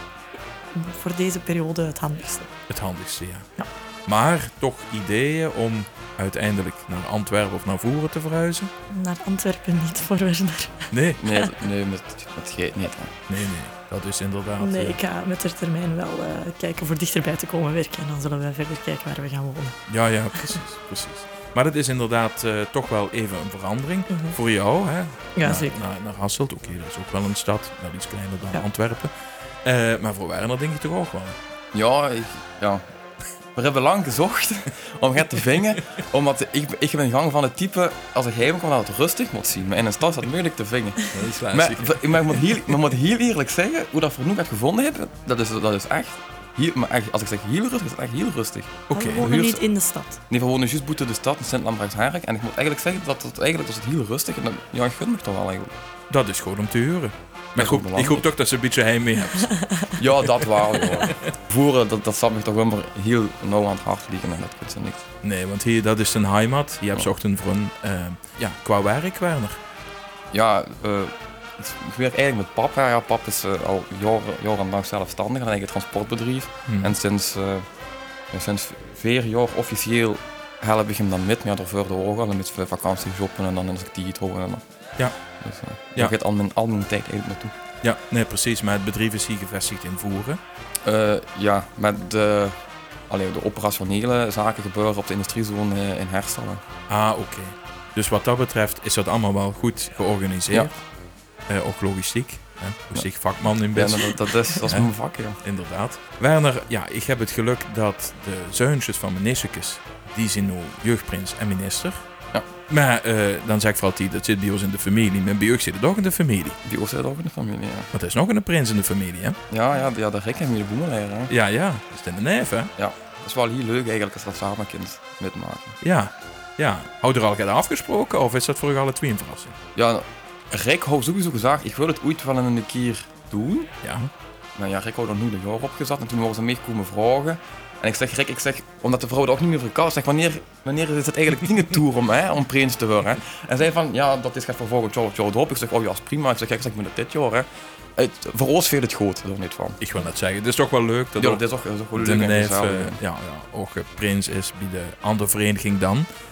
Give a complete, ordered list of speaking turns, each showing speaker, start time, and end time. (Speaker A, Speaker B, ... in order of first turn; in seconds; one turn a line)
Speaker A: 0.7-2.5
Speaker B: 2.7-3.5
Speaker B: 4.1-8.7
Speaker A: 8.9-11.5
Speaker B: 10.9-11.2
Speaker C: 11.2-13.1
Speaker B: 13.3-15.0
Speaker A: 14.6-19.8
Speaker B: 19.9-29.1
Speaker A: 24.1-24.4
Speaker A: 25.4-25.8
Speaker B: 29.6-31.4
Speaker C: 31.7-32.8
Speaker C: 33.5-49.6
Speaker B: 41.1-42.2
Speaker B: 48.9-49.3
Speaker A: 48.9-50.2
Speaker C: 50.3-55.7
Speaker B: 56.1-59.5
Speaker C: 57.6-58.3
Speaker A: 59.5-59.9
Speaker C: 60.0-65.0
Speaker B: 60.4-61.3
Speaker B: 65.2-69.6
Speaker C: 70.3-77.7
Speaker B: 76.7-77.0
Speaker C: 78.3-84.6
Speaker C: 85.4-87.5
Speaker B: 87.8-90.4
Speaker C: 90.8-92.5
Speaker C: 93.1-96.6
Speaker B: 96.9-100.7
Speaker B: 101.5-104.9
Speaker C: 103.7-105.4
Speaker B: 105.4-112.0
Speaker B: 112.7-116.6
Speaker C: 116.6-117.9
Speaker B: 117.9-119.4
Speaker C: 119.5-121.3
Speaker B: 121.3-122.7
Speaker C: 122.8-125.8
Speaker B: 125.8-129.6
Speaker C: 129.8-133.7
Speaker B: 133.8-134.1
Speaker C: 134.6-149.8
Speaker B: 149.8-151.4
Speaker C: 151.2-153.0
Speaker B: 151.9-156.1